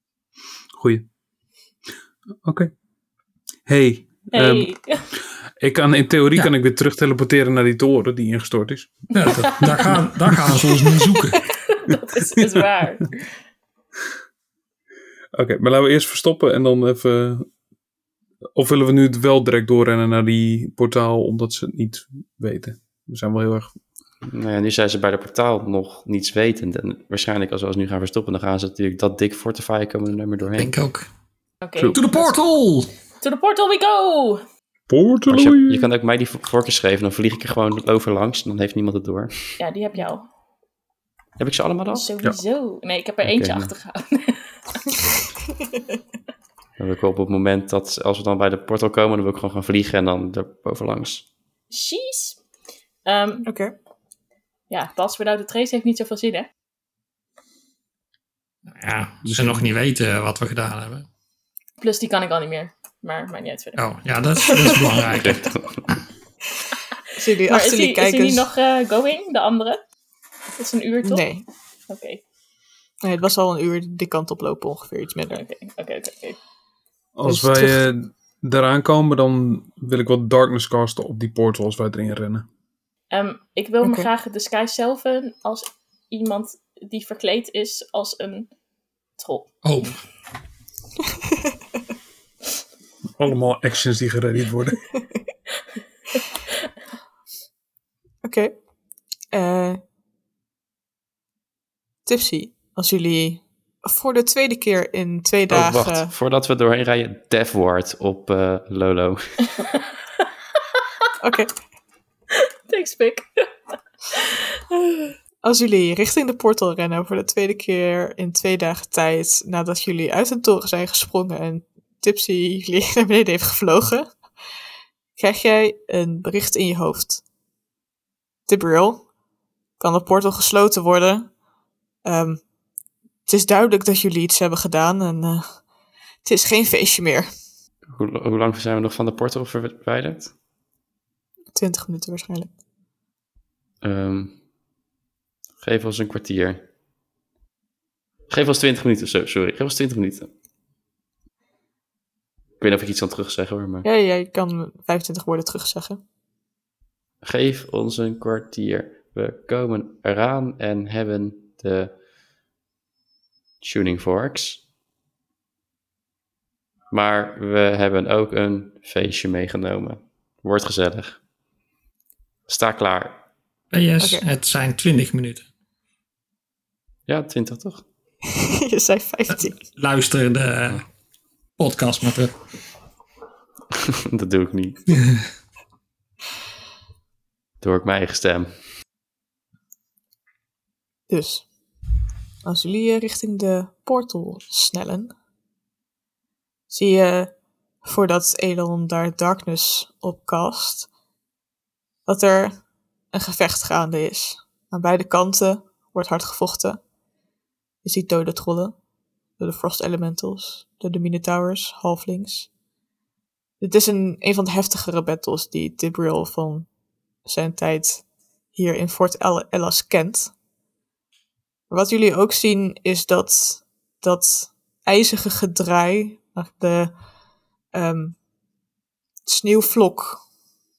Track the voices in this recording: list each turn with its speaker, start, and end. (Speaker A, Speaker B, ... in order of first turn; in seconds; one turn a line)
Speaker A: 0.7-1.1
Speaker A: 2.4-2.7
Speaker A: 3.6-4.8
Speaker B: 4.3-5.1
Speaker A: 5.6-11.0
Speaker C: 9.1-11.4
Speaker B: 9.2-9.9
Speaker B: 11.5-13.3
Speaker A: 15.3-17.5
Speaker A: 18.6-23.7
Speaker D: 24.2-30.8
Speaker C: 30.6-31.1
Speaker B: 31.6-32.3
Speaker A: 31.8-32.3
Speaker C: 31.9-32.9
Speaker B: 33.2-34.4
Speaker A: 34.9-35.9
Speaker D: 35.3-39.6
Speaker B: 39.6-40.3
Speaker D: 41.4-42.1
Speaker B: 41.9-44.6
Speaker D: 43.2-43.7
Speaker D: 46.8-51.2
Speaker B: 51.7-52.4
Speaker B: 53.0-53.5
Speaker E: 53.5-53.7
Speaker B: 54.7-56.5
Speaker C: 58.7-61.1
Speaker A: 59.2-59.7
Speaker B: 61.8-63.8
Speaker C: 63.8-65.6
Speaker D: 65.1-65.9
Speaker E: 67.2-68.5
Speaker B: 67.5-69.8
Speaker B: 70.6-71.2
Speaker E: 71.0-71.5
Speaker B: 71.9-72.2
Speaker E: 73.0-75.4
Speaker B: 75.3-76.4
Speaker A: 77.2-82.5
Speaker E: 77.3-77.8
Speaker B: 83.1-88.5
Speaker E: 83.8-84.1
Speaker B: 89.2-89.5
Speaker C: 89.6-90.0
Speaker A: 93.2-94.8
Speaker E: 98.2-98.5
Speaker E: 99.3-99.8
Speaker E: 102.1-106.1
Speaker D: 105.5-109.4
Speaker B: 110.8-111.1
Speaker E: 111.2-111.5
Speaker B: 112.7-113.5
Speaker B: 114.1-115.2
Speaker E: 115.4-124.1
Speaker E: 125.2-127.2
Speaker E: 128.5-129.1
Speaker E: 129.8-131.3
Speaker E: 132.1-132.4
Speaker E: 133.3-135.6
Speaker E: 136.2-137.3
Speaker D: 137.9-140.3
Speaker E: 141.6-142.5
Speaker D: 143.8-144.4
Speaker D: 145.6-146.7
Speaker D: 148.3-150.3
Speaker D: 152.6-153.9
Speaker E: 153.8-156.0
Speaker D: 157.2-161.9
Speaker D: 163.6-164.6
Speaker D: 166.9-171.2
Speaker D: 172.5-173.2
Speaker C: 173.7-175.5
Speaker D: 177.1-177.8
Speaker E: 178.5-179.6
Speaker C: 179.6-180.8
Speaker C: 181.6-182.3
Speaker D: 183.9-184.9
Speaker C: 184.9-185.2
Speaker D: 187.6-188.6
Speaker E: 191.1-191.5
Speaker E: 192.4-195.1
Speaker E: 196.7-200.9
Speaker E: 202.1-206.8
Speaker E: 207.8-208.8
Speaker E: 209.4-212.5
Speaker E: 213.6-216.7
Speaker E: 217.3-220.3
Speaker E: 221.7-227.0
Speaker E: 227.7-228.2
Speaker E: 229.3-230.2